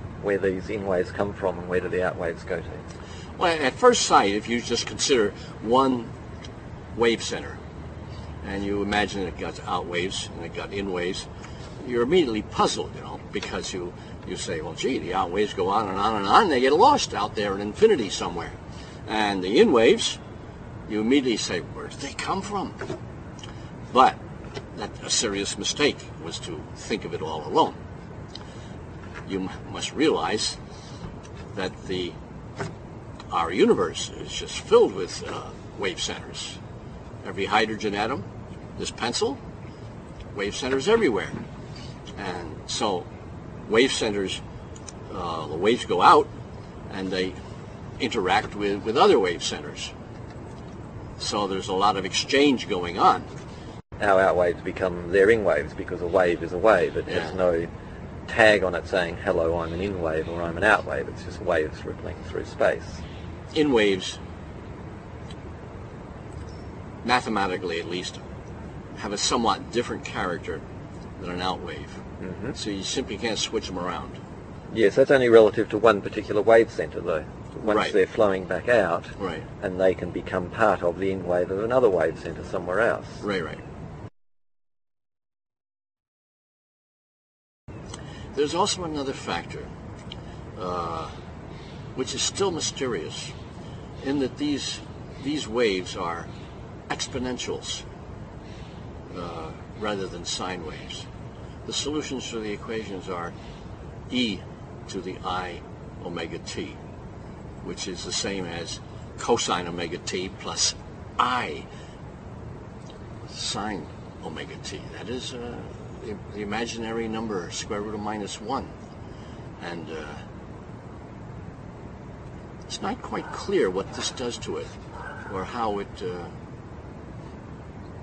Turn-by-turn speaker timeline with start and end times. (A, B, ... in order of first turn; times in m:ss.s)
0:00.2-0:02.9 A
0:03.4-0:06.1 B
0:06.9-0:07.6 B
0:08.4-0:11.3 B
0:11.8-0:18.6 B
0:19.1-0:20.2 B
0:20.9-0:22.8 B
0:23.9-0:24.2 B
0:24.7-0:27.8 B
0:29.3-0:30.6 B
0:31.5-0:32.2 B
0:33.3-0:36.6 B
0:37.2-0:38.3 B
0:38.8-0:39.4 B
0:40.3-0:41.4 B
0:42.2-0:43.1 B
0:43.6-0:44.4 B
0:45.1-0:46.3 B
0:46.9-0:47.4 B
0:48.0-0:49.9 B
0:51.2-0:53.3 B
0:54.0-0:57.7 A
0:57.1-0:57.4 B
0:58.3-1:03.0 A
1:03.5-1:04.2 B
1:07.0-1:08.2 B
1:09.0-1:10.6 B
1:11.2-1:12.0 B
1:12.2-1:12.6 A
1:12.6-1:14.2 B
1:14.7-1:23.2 A
1:17.6-1:18.0 B
1:19.2-1:19.5 B
1:23.2-1:23.6 B
1:28.3-1:29.7 B
1:30.6-1:31.1 B
1:32.0-1:33.3 B
1:34.0-1:36.3 B
1:36.9-1:37.8 B
1:39.1-1:41.1 B
1:41.7-1:43.3 B
1:44.1-1:46.8 B
1:47.6-1:51.7 B
1:53.3-1:58.7 B
1:59.6-2:00.2 B
2:02.7-2:04.7 B
2:05.3-2:06.3 B